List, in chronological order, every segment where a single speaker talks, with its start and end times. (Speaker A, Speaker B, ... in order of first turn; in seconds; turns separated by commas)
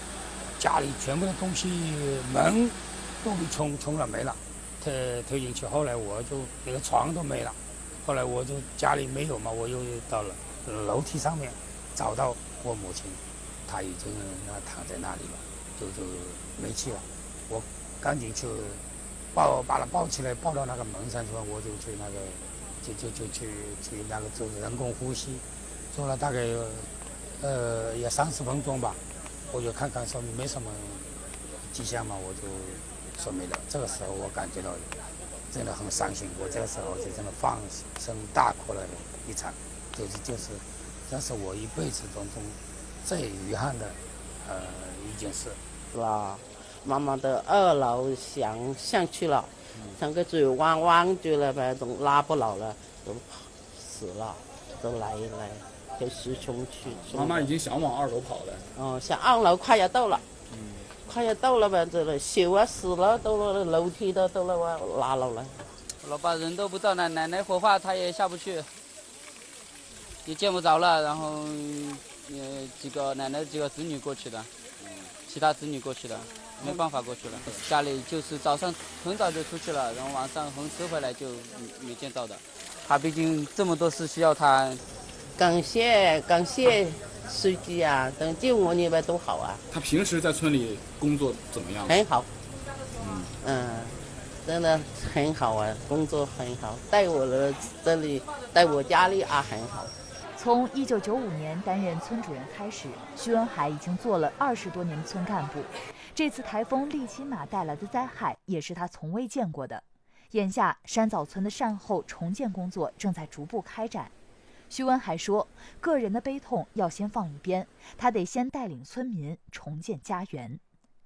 Speaker A: 0.6-18.8, Speaker A: 19.3-29.0, Speaker A: 29.5-34.9, Speaker A: 35.5-45.6, Speaker B: 45.9-57.5, Speaker C: 56.9-58.7, Speaker B: 58.8-60.3, Speaker C: 60.5-60.9, Speaker B: 61.0-65.6, Speaker D: 66.0-68.7, Speaker D: 70.2-74.5, Speaker C: 74.8-75.1, Speaker D: 75.3-84.8, Speaker C: 76.6-77.6, Speaker B: 85.4-89.6, Speaker C: 89.7-92.0, Speaker B: 91.9-92.3, Speaker C: 93.0-93.3, Speaker B: 93.4-99.9, Speaker E: 100.4-114.1, Speaker E: 114.7-120.6